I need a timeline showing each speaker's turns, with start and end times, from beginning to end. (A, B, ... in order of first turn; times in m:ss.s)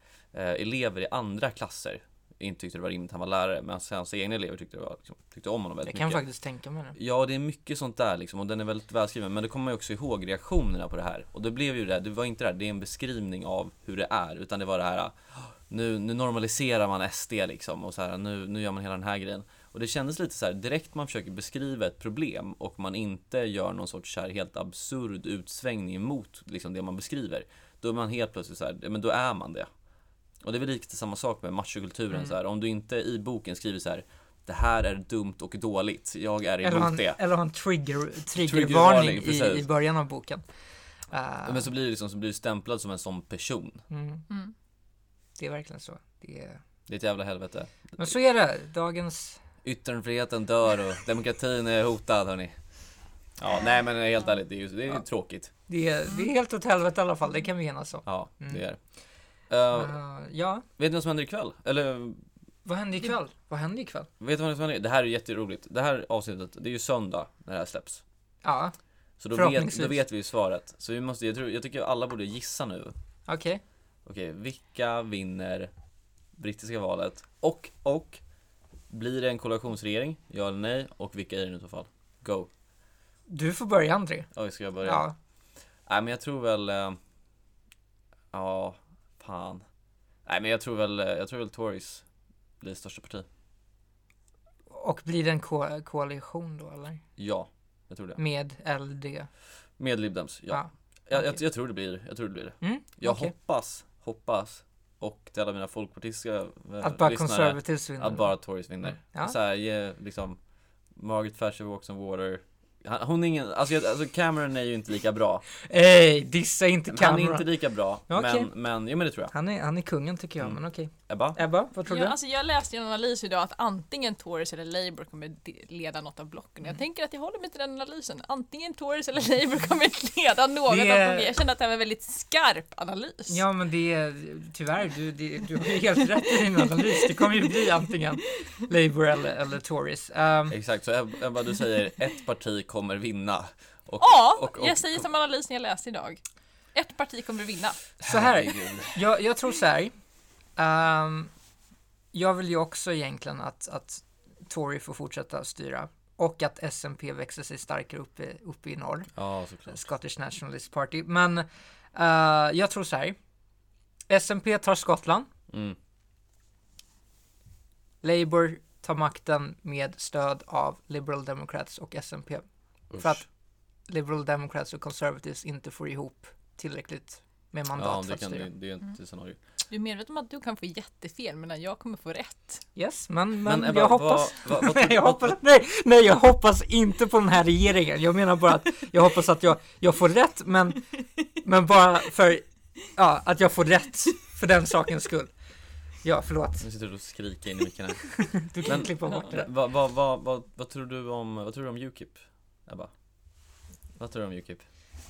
0:00.3-0:06.2 A
0:05.9-0:06.9 B
0:07.0-0:29.7 A
0:30.4-0:37.2 A
0:36.6-0:40.4 B
0:38.3-0:39.7 A
0:41.1-0:41.7 B
0:41.4-0:43.8 A
0:43.9-0:44.2 B
0:44.3-0:44.5 C
0:45.4-0:46.6 B
0:46.9-0:48.0 A
0:48.0-0:49.4 B
0:49.6-0:52.5 A
0:53.4-0:55.5 A
0:55.7-0:58.6 B
0:58.0-0:58.8 A
0:59.5-0:59.9 A
0:59.7-1:00.6 B
1:00.8-1:02.2 A
1:02.6-1:04.1 B
1:04.2-1:08.0 A
1:08.4-1:08.7 B
1:09.2-1:12.9 A
1:09.3-1:10.0 B
1:13.3-1:13.6 B
1:14.0-1:15.7 A
1:16.4-1:18.2 A
1:18.9-1:22.5 A
1:23.3-1:24.3 B
1:24.3-1:25.1 A
1:24.8-1:25.1 B
1:25.9-1:27.0 A
1:28.3-1:29.6 A
1:30.2-1:32.0 A
1:32.6-1:33.2 A
1:34.7-1:37.0 B
1:37.2-1:38.2 A
1:38.2-1:39.3 B
1:39.8-1:50.4 A
1:40.5-1:41.4 B
1:42.6-1:43.3 B
1:46.8-1:48.3 B
1:49.0-1:49.4 B
1:50.9-1:55.4 A
1:55.6-1:58.5 B
1:56.9-1:59.3 A
1:59.3-2:02.2 B
2:01.1-2:01.4 A
2:01.8-2:13.4 C
2:10.7-2:11.3 B
2:13.3-2:20.6 B
2:20.5-2:25.0 A
2:24.0-2:26.2 C
2:26.7-2:27.8 C
2:28.0-2:29.0 A
2:28.0-2:29.9 B
2:30.6-2:31.3 B
2:32.1-2:39.1 B
2:39.2-2:39.8 A
2:39.7-2:43.2 B
2:44.1-2:45.3 B
2:45.5-2:45.8 A
2:48.0-2:52.4 B
2:52.9-2:53.2 A
2:53.0-2:53.2 B
2:53.9-2:58.5 B
2:57.8-2:59.4 A
2:59.7-3:02.6 C
3:02.8-3:15.3 B
3:03.4-3:05.4 A
3:16.0-3:16.6 B
3:16.6-3:22.9 A
3:18.1-3:19.5 B
3:24.0-3:24.6 A